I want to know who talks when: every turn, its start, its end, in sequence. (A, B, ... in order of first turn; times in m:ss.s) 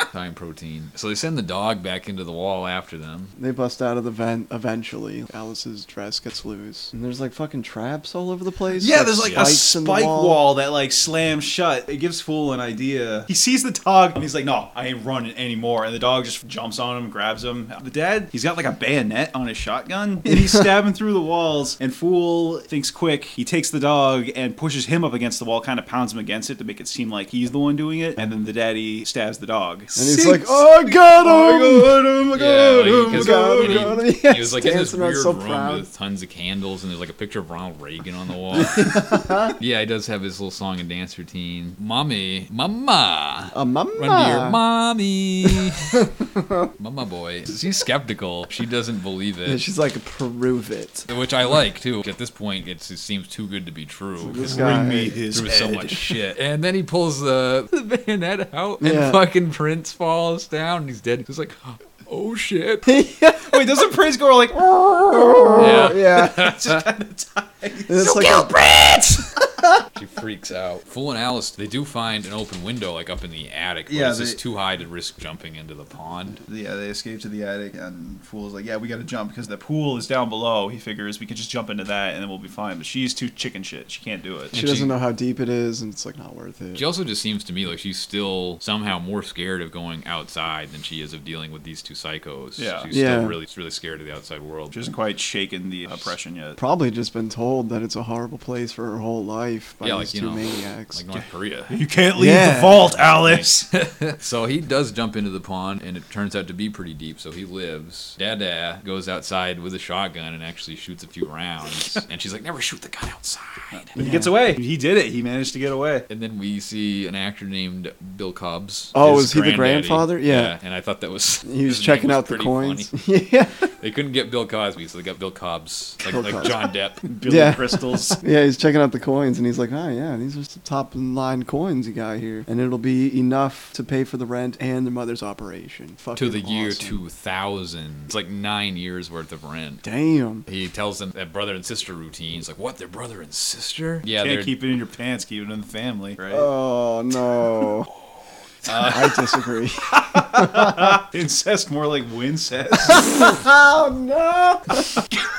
0:00.1-0:03.3 A
0:03.4-0:10.4 B
0:08.8-0:34.0 C
0:09.2-0:09.5 A
0:30.0-0:32.0 B
0:32.3-0:46.0 A
0:33.1-0:35.9 B
0:38.5-0:39.6 B
0:43.5-0:44.6 B
0:45.5-0:46.7 B
0:46.8-0:49.6 A
0:49.4-0:51.1 B
0:51.1-1:02.9 A
0:54.2-0:55.2 B
0:54.4-0:56.0 C
0:58.8-0:59.2 B
1:02.9-1:03.8 B
1:03.5-1:08.6 C
1:05.2-1:06.4 B
1:05.6-1:06.8 A
1:07.9-1:09.2 B
1:08.1-1:08.5 A
1:10.0-1:16.4 A
1:13.9-1:14.4 C
1:16.4-1:24.6 C
1:24.5-1:25.0 A
1:24.5-1:26.8 B
1:26.8-1:34.8 A
1:32.6-1:32.9 C
1:32.9-1:33.4 B
1:34.7-1:36.6 C
1:36.6-1:41.0 B
1:39.8-1:41.8 A
1:41.7-1:43.7 C
1:42.2-1:42.9 B
1:43.0-1:54.0 A
1:53.7-1:56.1 C
1:54.0-1:54.3 B
1:56.1-2:02.9 A
1:58.9-2:00.6 B
2:01.4-2:03.7 B
2:03.8-2:07.1 A
2:06.0-2:06.7 B
2:07.0-2:08.2 C
2:07.3-2:17.0 B
2:16.2-2:19.8 A
2:19.8-2:20.5 B
2:20.5-2:24.5 A
2:24.2-2:26.5 C
2:26.3-2:27.9 B
2:28.6-2:29.2 A
2:28.8-2:31.0 B
2:29.9-2:33.3 C
2:32.9-2:35.0 B